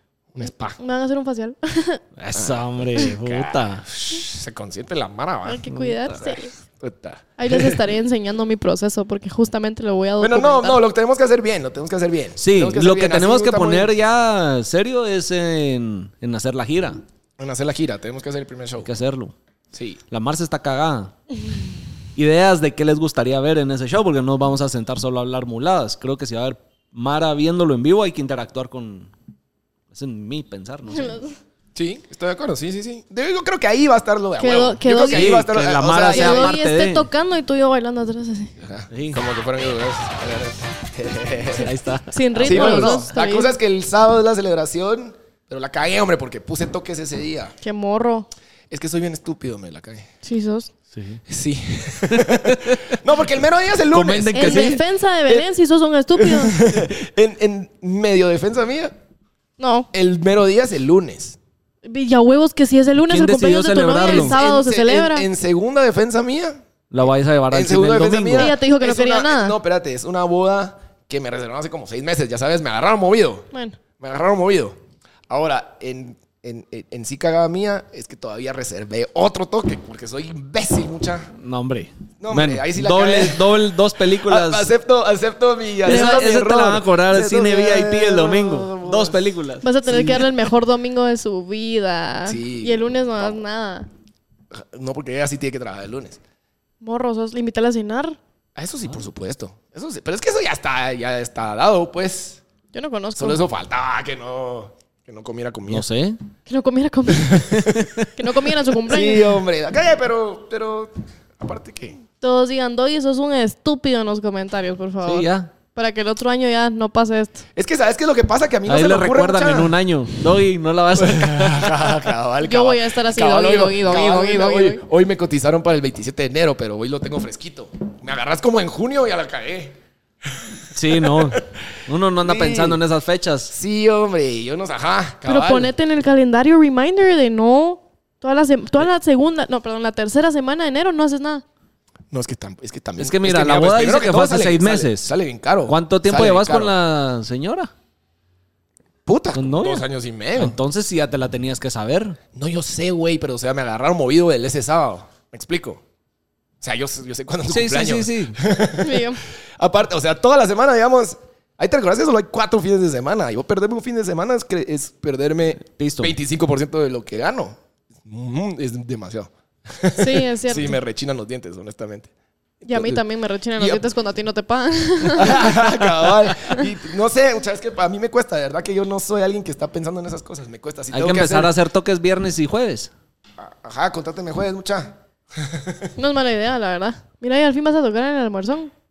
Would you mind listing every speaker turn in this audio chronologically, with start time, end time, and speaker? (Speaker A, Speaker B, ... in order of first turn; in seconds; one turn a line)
Speaker A: 0.3-0.8
Speaker B: 0.8-2.0
Speaker C: 2.2-3.9
Speaker A: 2.3-7.8
Speaker B: 5.5-6.5
Speaker C: 5.7-6.0
Speaker B: 7.4-10.8
Speaker A: 10.2-14.0
Speaker C: 12.4-17.0
Speaker A: 17.4-18.9
Speaker C: 18.8-19.3
Speaker A: 19.7-20.0
Speaker C: 20.1-21.1
Speaker C: 22.2-29.1
Speaker C: 29.9-31.1
Speaker B: 30.9-31.3
Speaker A: 31.8-36.5
Speaker B: 34.4-35.4
Speaker C: 35.1-37.1
Speaker B: 36.1-38.5
Speaker A: 38.6-41.7
Speaker C: 38.9-39.2
Speaker C: 41.5-43.1
Speaker B: 42.1-43.5
Speaker A: 42.4-47.5
Speaker B: 47.6-48.3
Speaker A: 48.7-50.1
Speaker B: 50.2-50.7
Speaker C: 50.9-51.2
Speaker A: 51.3-55.5
Speaker C: 52.1-52.8
Speaker C: 53.9-54.8
Speaker B: 54.3-56.6
Speaker A: 56.2-59.0
Speaker B: 59.6-59.9
Speaker A: 59.9-61.4
Speaker B: 61.9-65.3
Speaker C: 63.1-64.4
Speaker A: 64.0-74.8
Speaker C: 66.9-68.5
Speaker B: 68.4-69.6
Speaker B: 73.5-73.8
Speaker A: 75.3-81.3
Speaker C: 81.4-84.7
Speaker A: 82.2-89.2
Speaker C: 85.8-89.6
Speaker B: 85.9-86.2
Speaker B: 89.6-93.9
Speaker A: 89.9-90.3
Speaker A: 92.3-93.4
Speaker A: 94.5-96.2
Speaker B: 96.8-98.2
Speaker A: 98.6-102.4
Speaker B: 102.7-103.4
Speaker A: 103.2-105.9
Speaker C: 105.7-106.2
Speaker B: 106.5-107.4
Speaker A: 107.2-107.9
Speaker C: 107.6-107.9
Speaker B: 108.2-109.3
Speaker A: 108.9-112.0
Speaker B: 112.2-117.4
Speaker C: 115.0-115.5
Speaker A: 117.5-119.7
Speaker C: 118.7-121.7
Speaker A: 121.0-131.6
Speaker B: 122.4-124.8
Speaker C: 130.7-133.5
Speaker A: 132.2-132.8
Speaker A: 133.5-135.7
Speaker B: 135.2-141.4
Speaker A: 142.1-146.8
Speaker C: 143.0-145.1
Speaker C: 145.7-147.7
Speaker A: 149.1-150.6
Speaker C: 149.3-152.2
Speaker A: 152.3-155.8
Speaker A: 156.6-172.1
Speaker C: 157.5-158.4
Speaker B: 158.8-159.2
Speaker C: 165.6-166.2
Speaker B: 170.0-170.8
Speaker A: 172.6-173.0
Speaker B: 172.7-175.6
Speaker A: 173.6-173.8
Speaker A: 175.1-181.5
Speaker C: 180.9-182.9
Speaker A: 183.4-185.9
Speaker B: 186.0-188.7